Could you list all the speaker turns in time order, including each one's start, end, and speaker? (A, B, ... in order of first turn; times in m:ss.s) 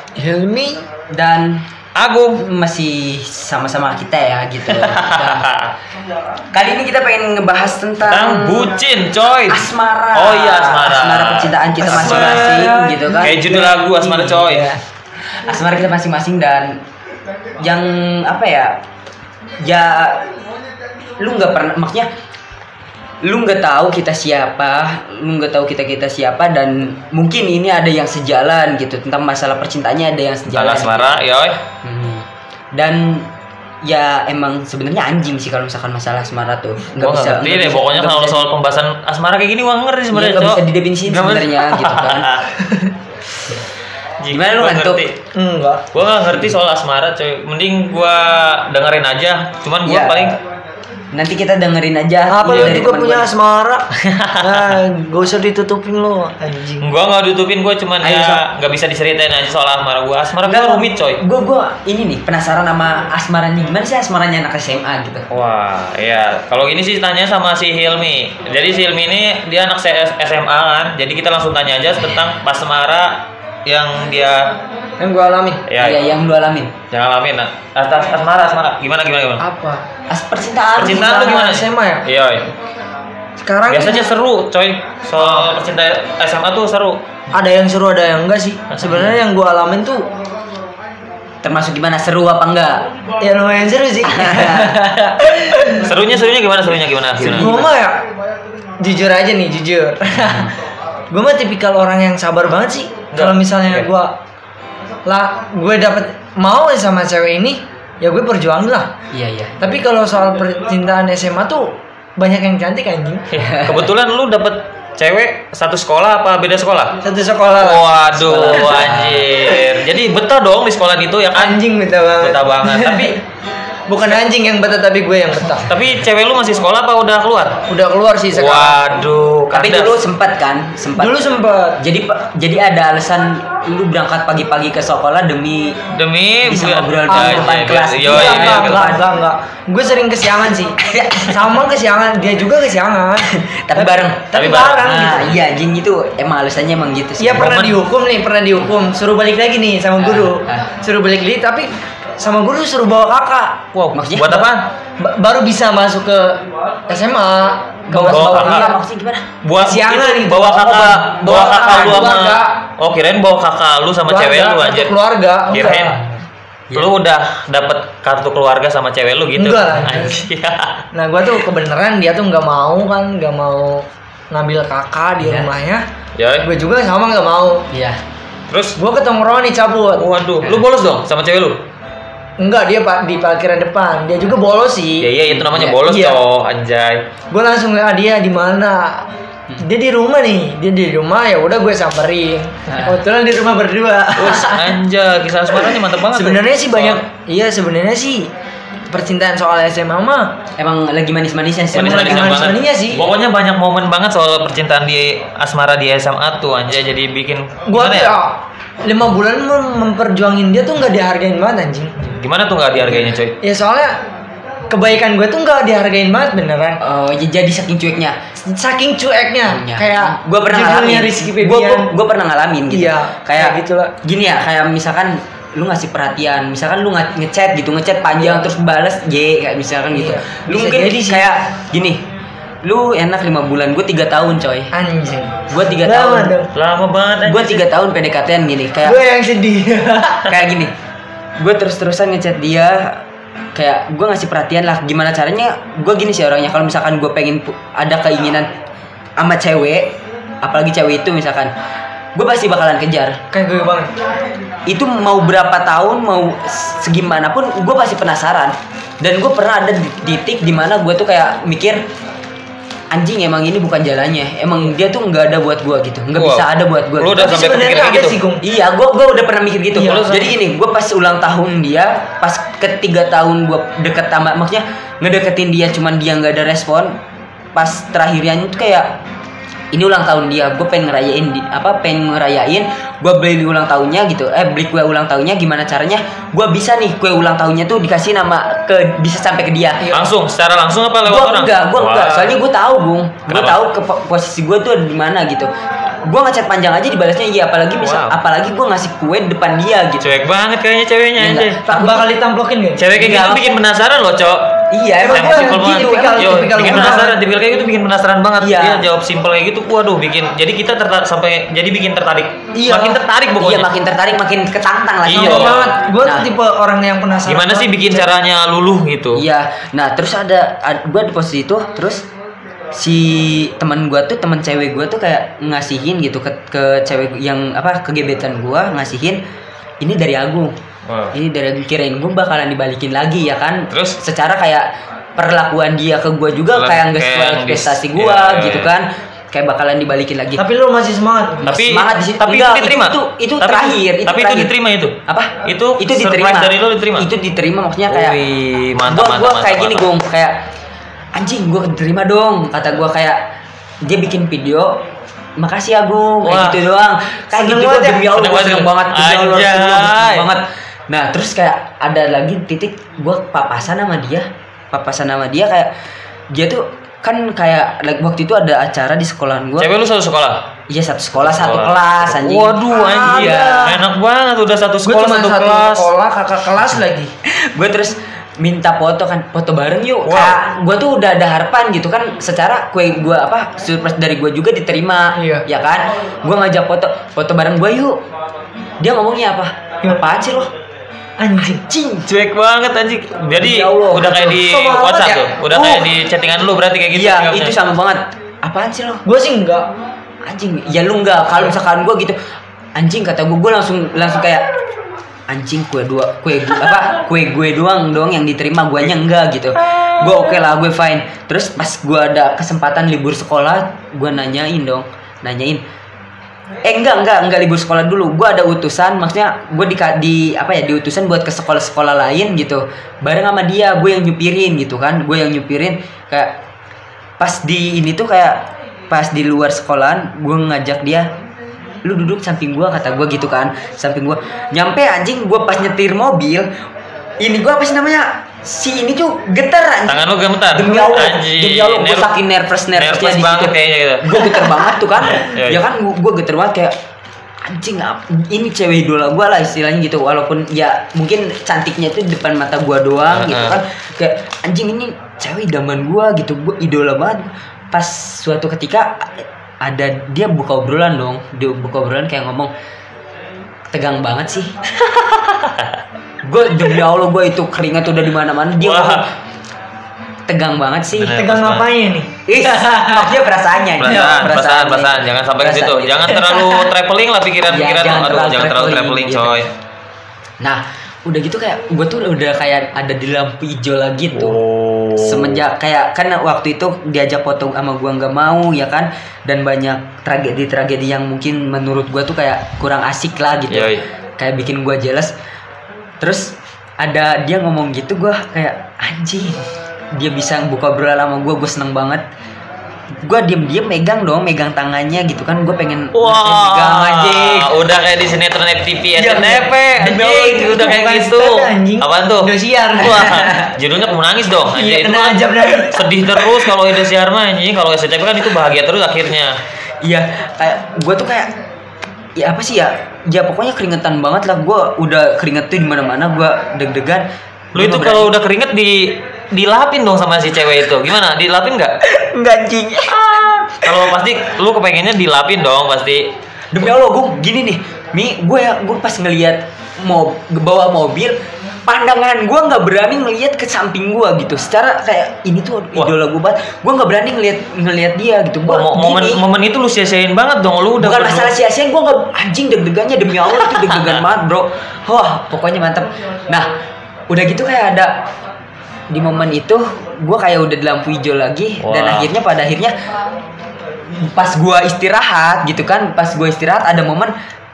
0:00.2-0:00.8 A
0:01.1-0:01.6 B
0:02.0-0:02.4 C
0:02.4-0:05.5 B
0:04.8-0:05.7 C
0:06.5-0:08.7 B
0:08.0-0:14.7 C
0:09.5-0:14.7 B
0:12.0-0:13.2 A
0:15.4-0:16.8 B
0:17.6-0:18.8 B
0:19.6-0:20.3 B
0:21.2-0:22.1 B
0:23.2-0:31.2 B
0:30.5-0:31.6 C
0:31.8-0:33.3 B
0:33.8-0:38.5 B
0:37.0-0:42.5 C
0:40.1-0:42.3 B
0:42.6-0:42.9 A
0:44.2-0:45.2 C
0:44.3-0:45.1 B
0:45.3-0:45.9 A
0:45.9-0:50.4 C
0:49.8-0:50.4 B
0:51.1-0:53.3 B
0:52.3-0:56.9 A
0:52.5-0:52.8 C
0:54.0-0:54.8 C
0:56.8-1:01.2 C
0:58.0-0:58.4 B
1:00.4-1:05.3 B
1:05.3-1:14.6 C
1:15.0-1:15.6 A
1:15.7-1:16.0 C
1:15.8-1:16.8 B
1:16.9-1:19.4 C
1:19.4-1:19.9 A
1:20.1-1:21.4 B
1:20.8-1:22.5 C
1:20.9-1:22.1 A
1:23.4-1:24.1 A
1:23.7-1:27.0 C
1:27.3-1:30.1 A
1:28.7-1:29.0 C
1:31.4-1:32.8 B
1:33.2-1:35.9 A
1:34.1-1:34.8 B
1:35.7-1:37.6 C
1:37.2-1:37.7 B
1:37.3-1:38.0 A
1:38.8-1:40.5 A
1:40.1-1:40.5 B
1:41.1-1:44.2 A
1:43.1-1:43.9 C
1:45.1-1:48.9 A
1:49.1-1:49.6 B
1:49.6-1:53.2 A
1:53.3-1:57.0 C
1:53.3-1:53.9 B
1:57.0-1:58.8 A
1:57.6-2:01.6 C
1:58.3-1:59.4 B
2:01.3-2:03.2 A
2:02.2-2:03.2 C
2:03.9-2:05.7 A
2:05.6-2:07.6 C
2:07.7-2:08.8 A
2:08.3-2:10.0 C
2:09.5-2:11.2 B
2:11.0-2:11.8 A
2:11.8-2:15.9 B
2:15.9-2:19.0 C
2:16.4-2:19.0 B
2:17.1-2:25.4 A
2:20.8-2:21.5 B
2:23.2-2:27.5 B
2:24.3-2:25.3 C
2:27.2-2:33.7 A
2:27.3-2:27.8 C
2:30.0-2:30.7 B
2:33.7-2:34.7 C
2:33.9-2:34.5 B
2:35.0-2:38.8 A
2:37.9-2:39.3 B
2:37.9-2:38.7 C
2:39.4-2:44.9 C
2:39.6-2:42.6 A
2:41.6-2:42.0 B
2:44.1-2:46.0 A
2:45.5-2:46.0 C
2:45.9-2:46.2 B
2:46.8-2:50.8 C
2:49.4-2:50.3 A
2:50.9-2:55.9 A
2:55.2-2:55.5 B
2:56.2-2:56.5 C
2:56.4-2:57.7 A
2:57.7-2:58.0 B
2:58.5-2:58.8 C
2:58.8-3:00.1 A
3:00.0-3:01.6 C
3:02.4-3:05.1 A
3:05.0-3:07.1 C
3:05.3-3:05.8 B
3:05.8-3:06.2 A
3:07.3-3:09.1 A
3:09.6-3:14.8 A
3:12.7-3:13.0 B
3:14.2-3:17.0 C
3:15.5-3:18.3 A
3:18.9-3:20.4 A
3:20.6-3:22.5 B
3:21.7-3:23.1 A
3:21.7-3:28.2 C
3:27.7-3:32.0 A
3:32.0-3:33.4 C
3:33.4-3:34.0 A
3:34.7-3:36.8 A
3:36.8-3:38.2 B
3:38.4-3:41.9 A
3:39.5-3:52.0 B
3:42.7-3:43.9 A
3:49.9-3:51.3 A
3:52.6-3:54.7 B
3:54.7-3:56.5 A
3:55.5-3:56.4 B
3:56.5-3:57.7 C
3:57.2-3:59.0 B
3:58.8-4:00.3 A
4:00.3-4:00.7 B
4:01.4-4:03.0 B
4:03.6-4:08.5 B
4:09.2-4:11.5 B
4:12.1-4:13.2 B
4:13.3-4:13.9 A
4:14.7-4:21.8 B
4:22.9-4:27.3 B
4:26.2-4:26.4 C
4:27.0-4:28.2 C
4:27.1-4:28.4 A
4:28.4-4:37.0 B
4:29.7-4:30.2 A
4:29.8-4:30.3 C
4:37.6-4:39.0 B
4:39.7-4:50.1 B
4:49.9-4:52.4 C
4:51.1-4:55.5 B
4:53.3-4:53.6 C
4:56.0-5:00.1 B
4:57.8-4:58.2 C
5:00.0-5:01.7 C
5:01.2-5:02.1 B
5:01.7-5:02.9 A
5:02.8-5:13.7 C
5:02.9-5:03.6 B
5:04.7-5:07.0 B
5:05.0-5:07.2 A
5:08.4-5:08.9 B
5:12.6-5:13.0 A
5:13.4-5:16.3 B
5:15.1-5:15.7 C
5:15.1-5:18.1 A
5:17.2-5:19.2 C
5:19.1-5:22.0 B
5:22.7-5:29.2 B
5:29.8-5:30.6 B
5:30.9-5:31.1 C
5:31.1-5:40.4 B
5:33.7-5:34.0 C
5:36.5-5:38.7 C
5:40.4-5:41.4 A
5:41.4-5:44.5 B
5:41.4-5:47.1 C
5:45.1-5:48.2 B
5:47.9-5:49.8 C
5:48.9-5:50.4 B
5:51.1-5:53.2 B
5:53.8-5:54.8 B
5:55.4-6:05.7 B
5:56.2-5:56.6 C
5:57.3-5:58.1 A
5:58.1-6:00.3 C
6:06.3-6:09.7 B
6:09.6-6:10.4 C
6:10.7-6:13.8 B
6:11.2-6:15.9 C
6:12.7-6:13.8 A
6:14.8-6:17.1 A
6:17.3-6:28.0 B
6:20.0-6:20.4 C
6:25.2-6:25.4 A
6:28.8-6:30.5 B
6:31.2-6:31.6 A
6:31.4-6:32.1 B
6:32.1-6:37.5 C
6:33.4-6:34.4 B
6:34.2-6:35.8 A
6:35.5-6:35.8 B
6:36.9-6:39.0 B
6:39.0-6:39.7 A
6:40.2-6:42.2 B
6:42.8-6:44.5 B
6:45.3-6:55.6 B
6:56.6-7:06.4 B
7:07.2-7:11.1 B
7:11.8-7:16.5 B
7:17.2-7:26.8 B
7:19.9-7:22.1 C
7:22.8-7:24.4 C
7:25.1-7:25.6 C
7:27.4-7:42.5 B
7:33.1-7:33.6 C
7:43.7-7:44.6 B
7:44.9-7:45.8 C
7:46.2-7:49.1 B
7:48.6-7:49.0 C
7:50.3-7:51.2 B
7:51.0-7:51.7 C
7:51.1-7:53.1 A
7:52.3-7:56.3 B
7:53.8-7:59.5 C
7:56.2-7:56.7 A
7:57.5-7:59.4 B
8:00.4-8:04.4 B
8:04.1-8:05.4 C
8:05.0-8:15.1 B
8:13.5-8:13.8 C
8:16.0-8:22.0 B
8:23.0-8:27.5 B
8:25.9-8:39.4 C
8:29.0-8:30.8 B
8:30.5-8:33.2 A
8:32.9-8:33.5 B
8:34.5-8:36.5 A
8:39.8-8:41.3 B
8:42.2-8:48.1 B
8:47.5-8:51.8 C
8:51.8-8:53.8 B
8:52.9-8:56.1 C
8:56.5-9:09.2 B
9:08.5-9:11.3 C
9:10.8-9:16.5 B
9:13.5-9:14.0 C
9:17.1-9:18.0 B
9:18.9-9:22.8 B
9:21.6-9:22.1 C
9:24.0-9:27.1 B